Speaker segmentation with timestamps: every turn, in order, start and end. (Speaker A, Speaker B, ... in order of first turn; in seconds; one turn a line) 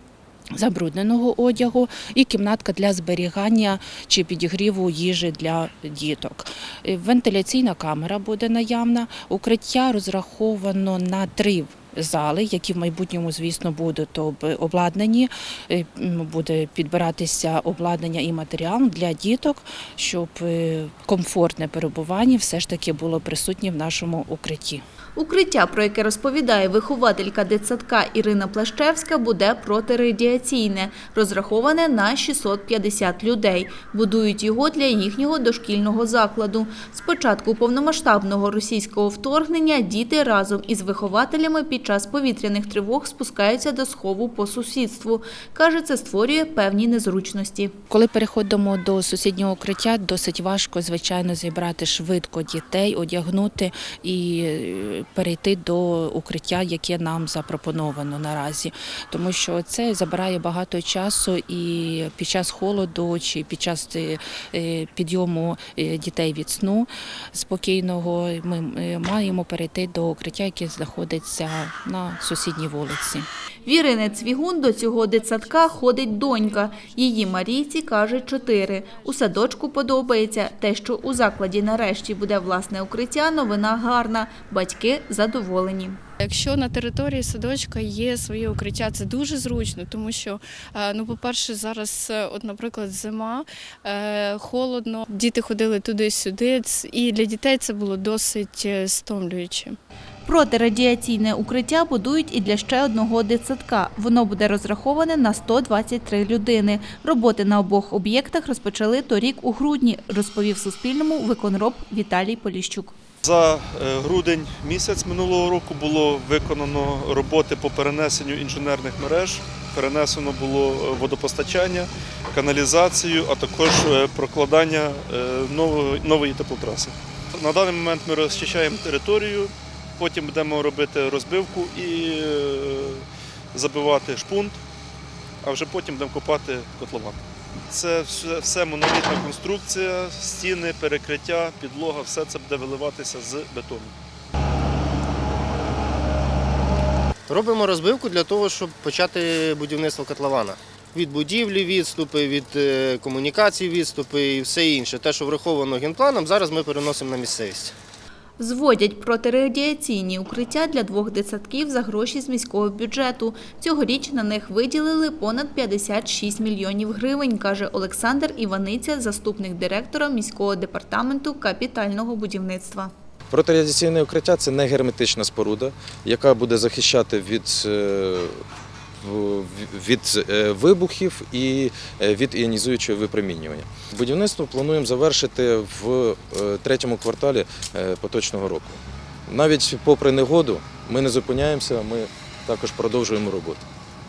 Speaker A: 0.5-24.8
Speaker B: 25.2-47.7
Speaker A: 47.9-73.3
Speaker B: 73.7-86.0
Speaker C: 86.2-99.8
Speaker B: 100.2-112.9
Speaker D: 113.2-134.6
Speaker D: 135.4-137.2
Speaker D: 137.7-143.9
Speaker E: 147.3-157.7
Speaker B: 158.4-172.9
Speaker F: 173.3-178.4
Speaker F: 179.0-193.6